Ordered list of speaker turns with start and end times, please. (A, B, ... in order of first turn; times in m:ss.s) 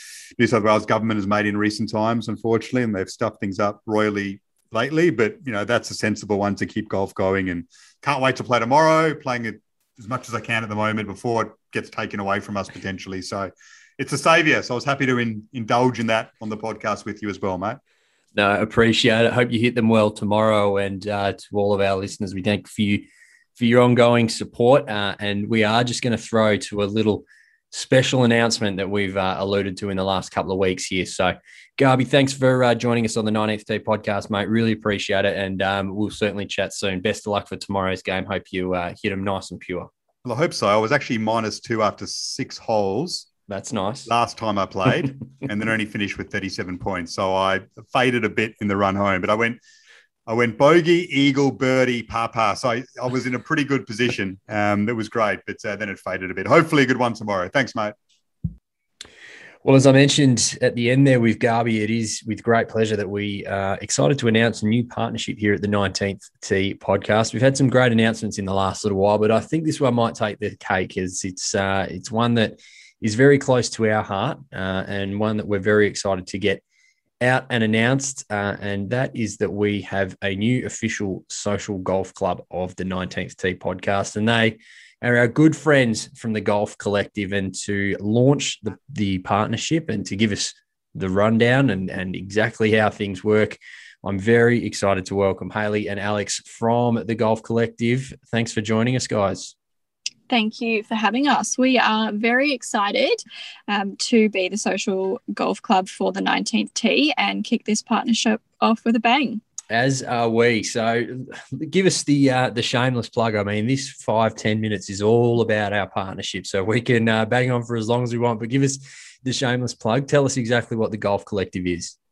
0:00.4-0:17.8 A
0:18.3-0:23.1 B
0:23.6-0:39.9 B
0:40.2-0:43.3 A
0:43.5-0:44.1 B
0:44.1-0:49.6 A
0:50.2-0:57.9 A
0:59.6-1:16.6 B
1:17.2-1:39.5 B
1:40.3-1:49.4 C
1:49.7-2:02.0 B